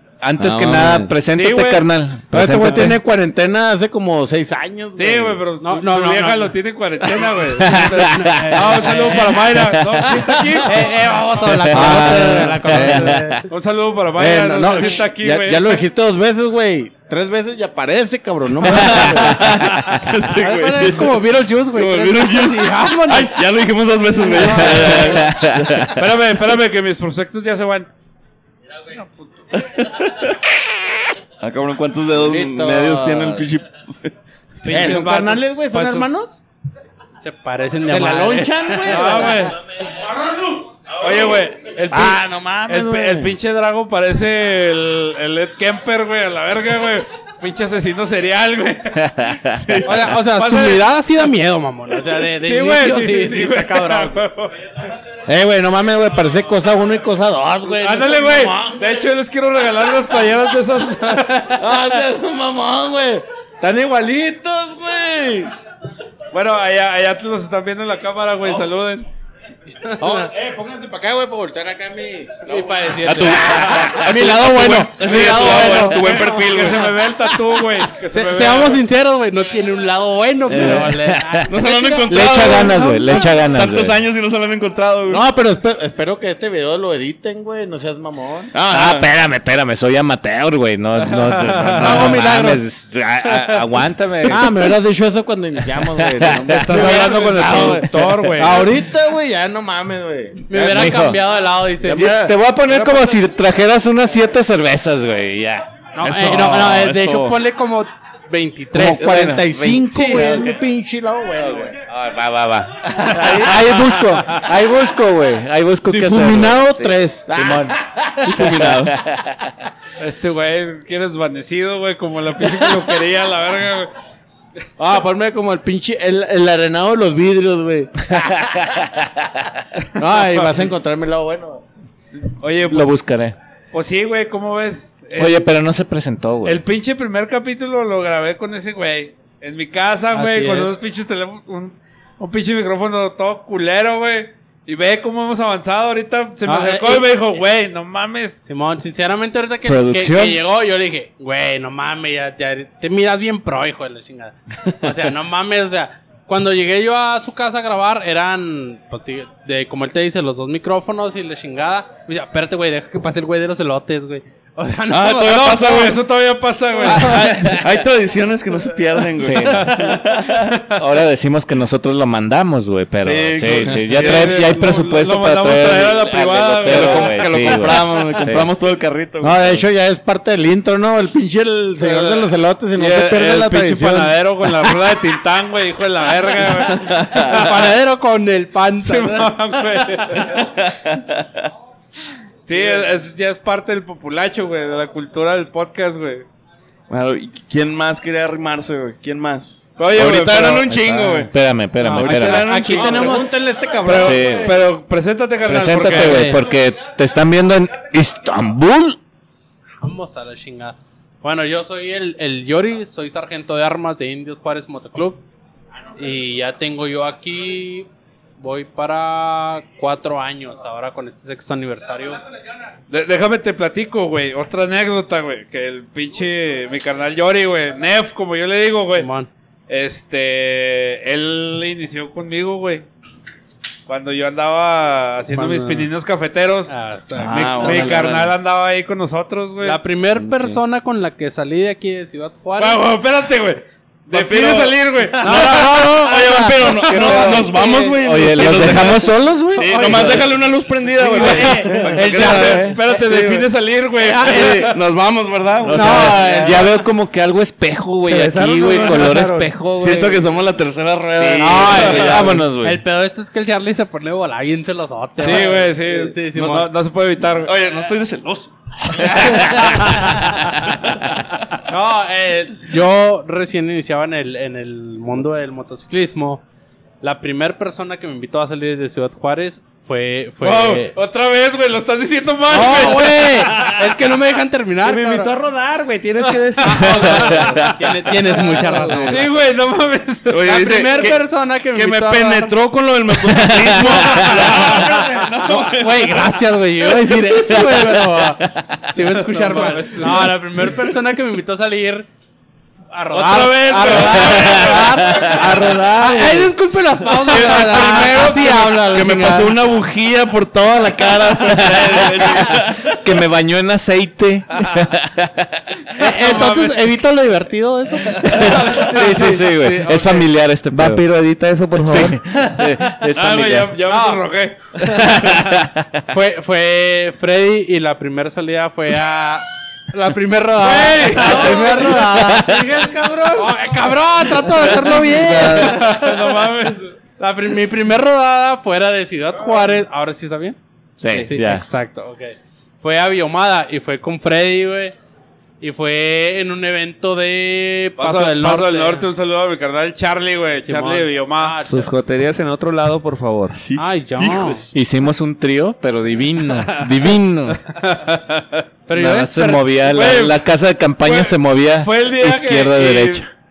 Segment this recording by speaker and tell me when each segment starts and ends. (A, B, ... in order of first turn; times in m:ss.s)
0:00.2-0:03.0 A
0:00.4-0:01.1 B
0:01.3-0:01.9 C
0:02.3-0:05.4 B
0:05.0-0:10.9 C
0:05.6-0:06.6 D
0:07.6-0:08.6 A
0:07.9-0:09.6 D
0:09.7-0:10.0 A
0:10.6-0:13.4 D
0:11.5-0:13.4 A
0:11.7-0:13.4 B
0:13.5-0:15.8 C
0:14.2-0:19.6 B
0:18.7-0:26.0 E
0:20.3-0:23.4 D
0:24.2-0:25.2 D
0:24.9-0:25.9 A
0:26.0-0:27.9 C
0:29.6-0:30.4 E
0:31.4-0:34.1 E
0:32.1-0:33.4 B
0:34.6-0:35.0 E
0:34.6-0:36.1 C
0:34.6-0:36.3 B
0:37.2-0:39.5 D
0:37.9-0:39.4 B
0:38.8-0:49.3 C
0:41.9-0:43.3 B
0:49.2-0:49.8 A
0:49.8-0:54.2 D
0:49.8-0:50.8 C
0:52.4-0:54.5 C
0:55.3-0:59.1 B
0:57.7-1:01.6 C
1:01.6-1:05.5 B
1:06.3-1:09.1 C
1:09.9-1:10.2 D
1:10.0-1:12.9 B
1:12.4-1:16.6 D
1:13.0-1:17.0 E
1:13.7-1:14.1 A
1:13.9-1:15.8 B
1:15.2-1:18.8 C
1:18.1-1:23.3 D
1:20.5-1:25.3 E
1:20.6-1:21.5 A
1:22.1-1:24.0 A
1:25.1-1:28.5 B
1:28.5-1:29.1 E
1:28.7-1:34.5 A
1:31.0-1:32.0 C
1:31.8-1:32.6 D
1:34.3-1:41.2 B
1:36.2-1:37.0 A
1:36.5-1:38.7 C
1:40.5-1:42.1 D
1:40.7-1:41.2 A
1:41.8-1:42.3 B
1:41.9-1:47.4 A
1:46.0-1:50.6 D
1:48.7-1:49.8 A
1:48.8-1:51.7 B
1:51.4-1:57.8 A
1:53.2-1:53.5 D
1:55.9-1:57.9 B
1:58.3-1:59.0 E
1:58.3-1:59.4 A
2:00.0-2:03.9 C
2:04.8-2:08.2 B
2:10.0-2:11.6 B
2:10.2-2:10.7 C
2:12.4-2:13.0 C
2:12.7-2:13.4 A
2:13.7-2:15.5 C
2:15.2-2:16.6 A
2:16.4-2:28.4 C
2:20.2-2:20.7 D
2:26.5-2:27.1 D
2:28.4-2:45.8 D
2:29.7-2:30.4 A
2:44.9-2:46.0 E
2:45.3-2:47.3 C
2:46.8-2:50.6 E
2:46.9-2:47.7 D
2:49.2-2:49.8 A
2:50.8-2:58.5 A
2:53.0-2:54.6 E
2:53.6-2:57.7 C
2:56.6-2:59.6 E
2:59.2-3:04.2 B
3:01.8-3:07.4 C
3:06.7-3:07.5 E
3:07.1-3:10.2 D
3:08.8-3:10.5 C
3:10.4-3:11.2 E
3:12.4-3:16.3 C
3:16.9-3:21.3 E
3:19.8-3:20.9 C
3:21.3-3:22.5 A
3:21.8-3:24.6 D
3:22.0-3:23.3 E
3:22.0-3:23.3 C
3:23.8-3:26.3 C
3:23.9-3:24.5 A
3:25.4-3:29.0 A
3:25.8-3:26.4 D
3:29.8-3:35.2 D
3:36.0-3:37.9 D
3:38.4-3:42.2 D
3:42.9-3:49.1 C
3:49.0-3:49.3 D
3:49.7-3:52.8 C
3:53.9-3:59.8 C
3:55.3-3:55.9 D
3:56.7-3:58.2 D
3:57.2-3:58.3 E
3:59.6-4:02.9 D
4:00.2-4:00.6 E
4:02.6-4:05.9 C
4:04.1-4:13.5 E
4:05.2-4:08.0 D
4:06.6-4:07.1 C
4:08.0-4:10.2 A
4:09.6-4:13.0 D
4:11.2-4:14.8 C
4:12.4-4:12.7 A
4:14.2-4:16.4 E
4:14.3-4:14.7 D
4:15.6-4:20.0 A
4:15.8-4:16.5 D
4:16.1-4:16.6 F
4:18.1-4:20.2 F
4:19.8-4:22.3 E
4:21.2-4:22.8 A
4:21.4-4:26.6 D
4:21.6-4:22.3 C
4:25.2-4:27.5 C
4:26.3-4:26.7 E
4:27.4-4:31.0 E
4:31.7-4:36.4 D
4:37.0-4:41.0 D
4:40.4-4:44.1 C
4:42.5-4:45.4 D
4:44.8-4:47.5 F
4:46.6-4:47.7 C
4:46.6-4:49.3 D
4:48.4-4:49.2 F
4:49.0-4:50.4 C
4:50.3-4:58.1 E
4:50.4-4:52.6 D
4:53.4-4:54.3 A
4:53.8-5:02.1 D
4:57.5-4:58.4 A
4:59.3-5:00.4 C
5:02.9-5:09.6 D
5:03.1-5:05.5 E
5:03.5-5:05.8 C
5:05.4-5:06.4 A
5:07.2-5:13.0 E
5:11.5-5:11.9 A
5:13.0-5:15.4 A
5:16.0-5:20.2 D
5:16.0-5:16.9 C
5:18.2-5:23.8 A
5:18.7-5:19.8 F
5:20.7-5:22.2 F
5:23.2-5:24.6 C
5:23.9-5:24.2 D
5:26.1-5:36.3 D
5:30.6-5:32.0 C
5:35.4-5:37.0 C
5:37.2-5:40.6 D
5:41.0-5:41.7 A
5:41.1-5:45.0 D
5:45.6-5:49.1 D
5:48.0-5:51.6 C
5:50.6-5:51.9 D
5:51.7-5:53.6 F
5:53.5-5:54.7 E
5:53.8-5:54.7 D
5:54.7-5:57.6 A
5:56.6-5:56.9 C
5:57.7-5:58.6 C
5:58.9-5:59.8 D
5:58.9-6:03.3 A
5:59.8-6:00.4 C
6:01.0-6:03.3 C